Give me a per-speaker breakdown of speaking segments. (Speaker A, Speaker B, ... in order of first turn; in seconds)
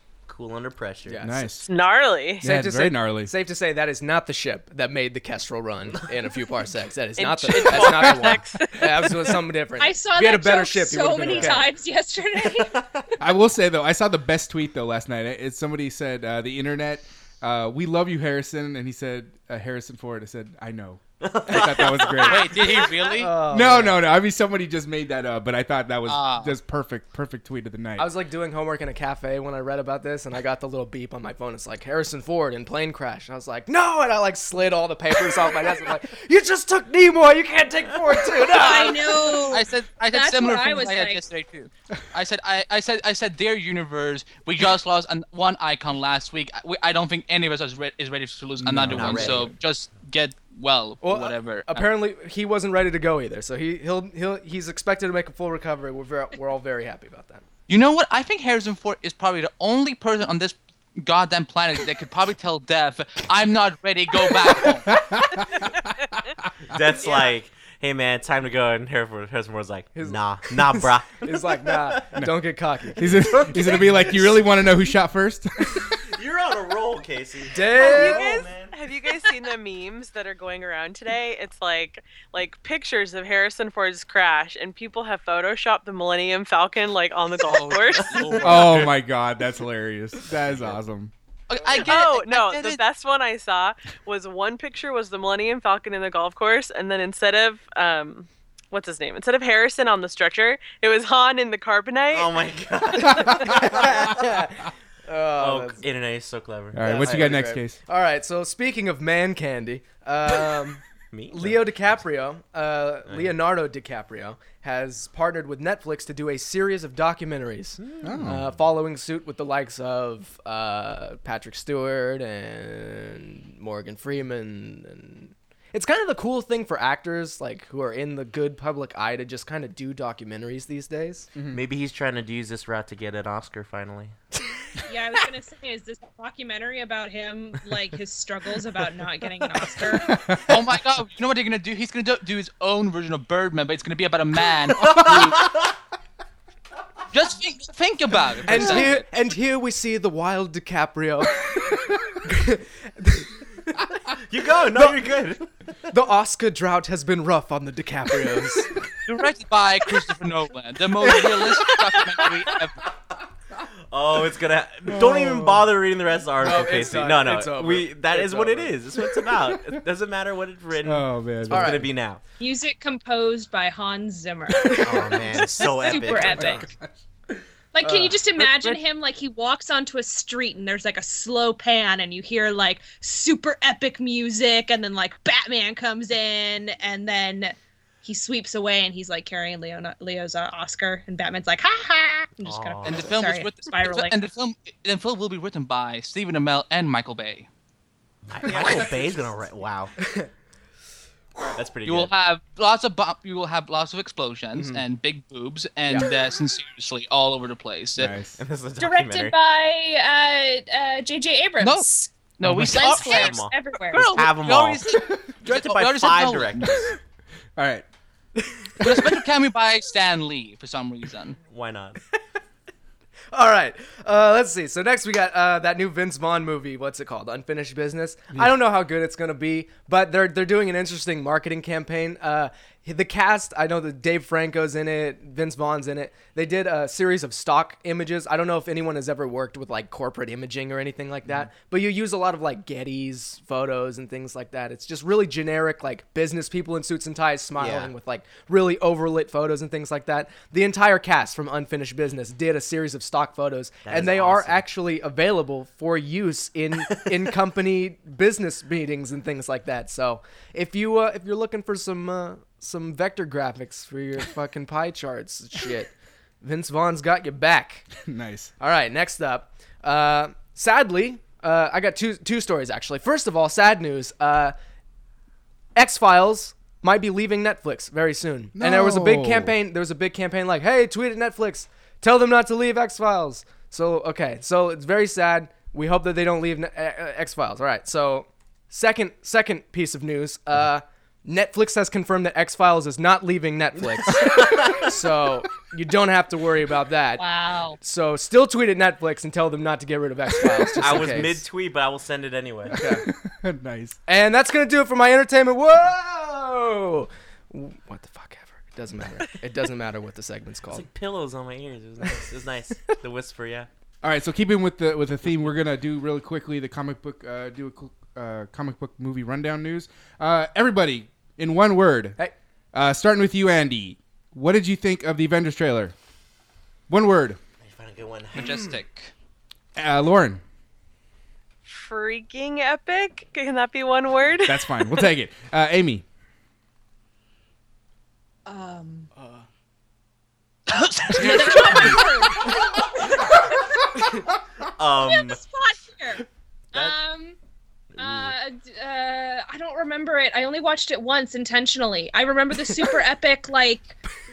Speaker A: 0.3-1.2, 7.6-8.2, 12.7-13.0, 21.2-22.4, 48.9-49.5, 66.7-72.1, 73.6-74.2, 76.0-78.7, 88.0-88.8, 102.1-104.3, 105.4-107.4, 111.1-112.0, 113.1-113.3, 117.8-118.3, 131.5-134.2, 144.7-145.7, 154.1-155.8, 163.9-172.2, 174.7-176.7, 192.4-193.1, 198.3-199.9, 201.5-202.1, 208.4-209.3, 212.8-213.5, 214.1-214.9, 215.4-216.9, 221.5-222.0, 247.6-247.9, 253.8-254.6, 294.1-294.9, 300.8-302.8, 310.7-313.7, 327.6-328.7, 344.7-345.4, 348.0-348.3
Speaker B: 1.1-1.6, 2.4-11.6, 23.2-24.0, 28.0-39.1, 51.0-57.4, 69.9-74.4, 77.5-78.2, 103.0-105.8, 106.8-131.3, 148.4-153.5, 155.9-158.7, 166.4-168.8, 171.5-171.9, 200.0-200.3, 204.6-204.8, 223.3-267.9, 268.6-274.5, 275.7-297.2, 297.8-301.4, 302.7-303.0, 304.1-310.9, 339.1-339.5
Speaker C: 1.2-1.6, 2.4-3.3, 11.3-11.6, 13.2-22.9, 23.5-28.1, 48.6-49.5, 64.9-65.7, 73.0-76.0, 88.4-91.1, 106.7-107.8, 118.0-118.4, 131.3-131.6, 140.1-140.6, 164.9-165.7, 169.3-169.8, 170.8-171.9, 176.2-177.0, 198.5-198.8, 207.9-208.4, 212.4-212.7, 217.6-217.8, 218.8-219.1, 268.0-268.5, 278.5-279.5, 302.7-304.0, 314.0-322.2, 322.7-325.9, 326.9-327.4, 329.8-330.4, 334.4-336.0, 341.6-341.9
Speaker D: 1.6-2.4, 7.2-9.4, 67.0-67.3, 77.7-88.2, 91.8-102.4, 103.1-103.5, 331.6-335.1
Speaker E: 9.8-12.8, 38.5-41.2, 134.8-140.2, 172.4-176.7, 177.7-194.1, 208.8-214.1, 297.2-297.8, 338.4-339.1, 341.1-344.2, 345.0-347.4, 348.0-354.0
Speaker F: 22.2-23.3, 26.1-26.5, 39.5-51.9, 57.7-65.0, 87.5-88.9, 91.5-92.8, 140.5-145.4, 147.1-149.0, 159.0-162.9, 192.8-197.5, 201.8-208.1, 211.6-211.9, 212.4-216.9, 218.8-221.4, 328.3-329.1, 340.7-342.4